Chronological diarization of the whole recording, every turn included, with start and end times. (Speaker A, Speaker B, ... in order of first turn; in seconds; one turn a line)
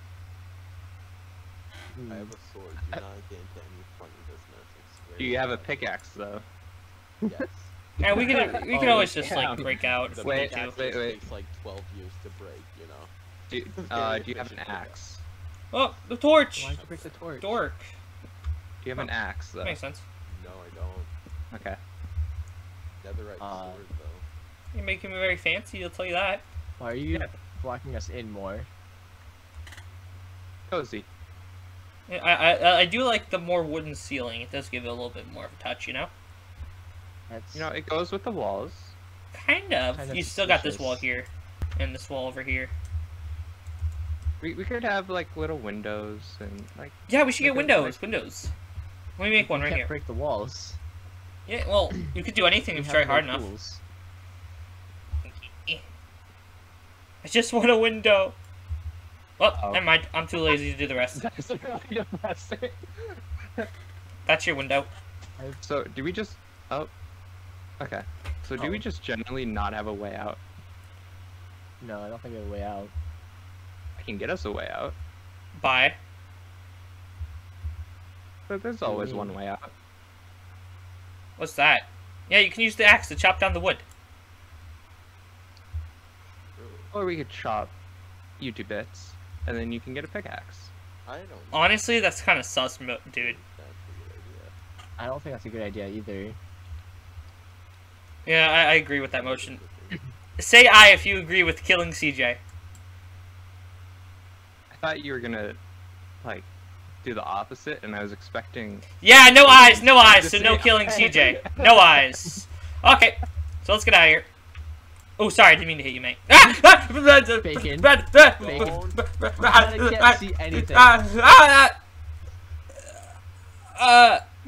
Speaker A: 1.9-2.4
Speaker B: 2.1-5.9
Speaker C: 5.2-6.5
Speaker B: 7.2-7.7
Speaker D: 8.0-10.8
Speaker C: 8.1-11.2
Speaker A: 8.7-9.1
Speaker B: 10.1-13.1
Speaker C: 13.5-15.2
Speaker B: 13.8-15.0
Speaker D: 15.7-17.9
Speaker A: 16.6-17.6
Speaker C: 18.8-19.8
Speaker D: 19.6-20.0
Speaker B: 20.3-21.1
Speaker C: 21.5-21.8
Speaker B: 23.0-24.3
Speaker A: 23.4-23.9
Speaker D: 24.7-26.4
Speaker A: 26.8-28.7
Speaker C: 30.7-31.1
Speaker D: 32.1-36.1
Speaker A: 37.3-37.7
Speaker C: 37.5-39.0
Speaker D: 39.3-42.7
Speaker A: 39.9-41.0
Speaker C: 44.4-47.0
Speaker D: 47.1-48.5
Speaker A: 47.4-48.0
Speaker D: 49.2-49.9
Speaker A: 49.4-50.8
Speaker D: 51.5-53.5
Speaker A: 52.7-53.8
Speaker D: 55.2-55.8
Speaker D: 57.2-58.4
Speaker D: 59.4-61.2
Speaker C: 59.5-59.9
Speaker C: 61.1-63.7
Speaker D: 64.3-64.9
Speaker C: 65.6-66.9
Speaker C: 67.8-70.4
Speaker A: 68.6-68.8
Speaker A: 71.8-72.9
Speaker C: 74.0-75.0
Speaker D: 75.6-76.0
Speaker C: 78.5-79.7
Speaker A: 78.8-79.4
Speaker D: 81.4-83.8
Speaker B: 86.6-86.9
Speaker C: 86.9-87.8
Speaker C: 88.4-90.7
Speaker B: 91.1-91.8
Speaker D: 91.5-93.4
Speaker B: 93.1-94.5
Speaker A: 95.0-96.4
Speaker D: 98.3-99.6
Speaker B: 98.8-100.0
Speaker D: 100.4-102.4
Speaker C: 104.7-105.6
Speaker C: 106.2-106.5
Speaker C: 107.0-108.9
Speaker D: 109.0-114.3
Speaker C: 109.5-111.8
Speaker D: 115.2-121.8
Speaker A: 117.4-120.9
Speaker B: 118.2-119.1
Speaker D: 123.8-124.2